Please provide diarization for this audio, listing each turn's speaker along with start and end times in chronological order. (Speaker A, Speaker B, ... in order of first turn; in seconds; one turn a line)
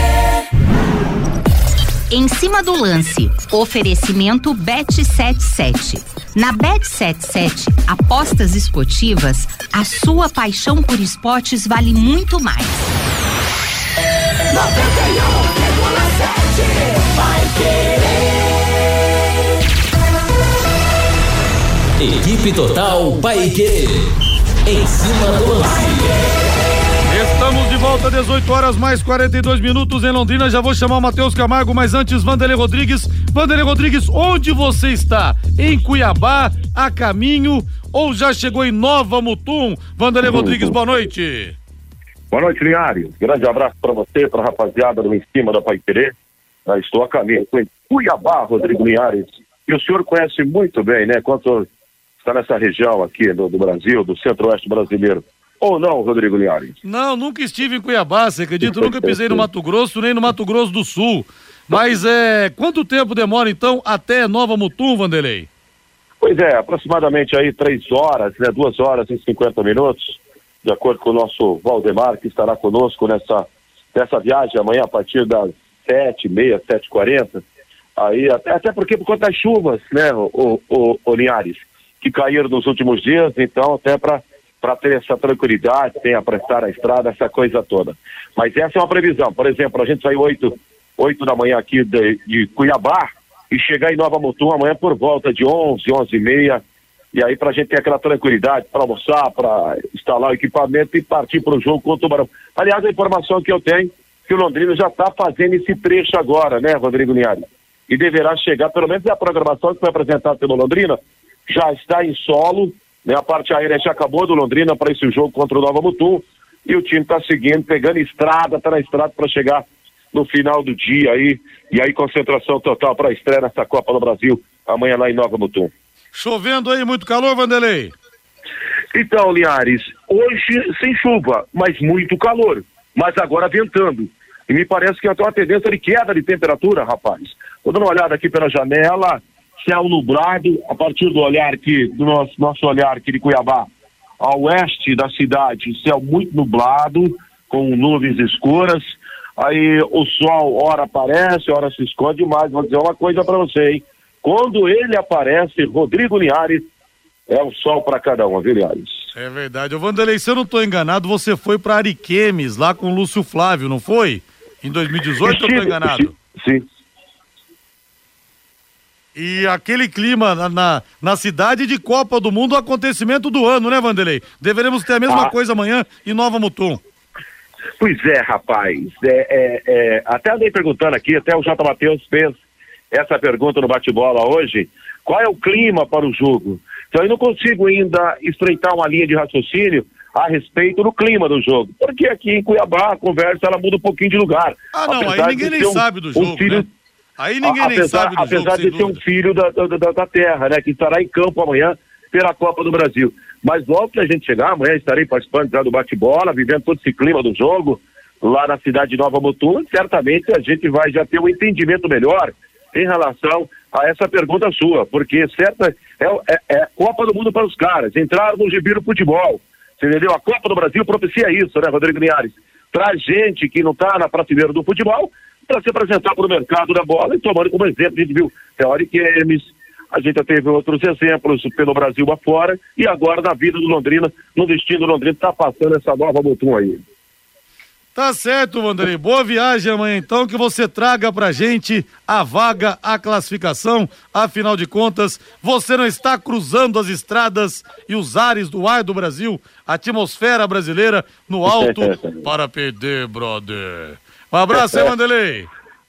Speaker A: 2.1-12.9
Speaker B: 22.0-24.1
Speaker B: 24.7-26.3
Speaker C: 27.1-41.6
Speaker D: 40.3-40.6
Speaker D: 42.3-46.1
Speaker D: 46.7-51.7
Speaker D: 52.2-56.8
Speaker C: 56.8-65.5
Speaker D: 58.6-59.5
Speaker D: 66.2-77.4
Speaker D: 78.0-96.6
Speaker D: 97.1-125.7
Speaker C: 126.1-127.9
Speaker D: 128.9-143.7
Speaker D: 144.2-156.7
Speaker D: 157.3-158.9
Speaker C: 159.2-166.1
Speaker D: 165.2-166.7
Speaker C: 169.2-176.8
Speaker D: 177.8-182.4
Speaker D: 182.9-196.7
Speaker C: 194.7-196.7
Speaker C: 197.2-199.0
Speaker D: 197.4-236.8
Speaker C: 237.9-255.5
Speaker D: 251.5-252.2
Speaker D: 254.5-254.9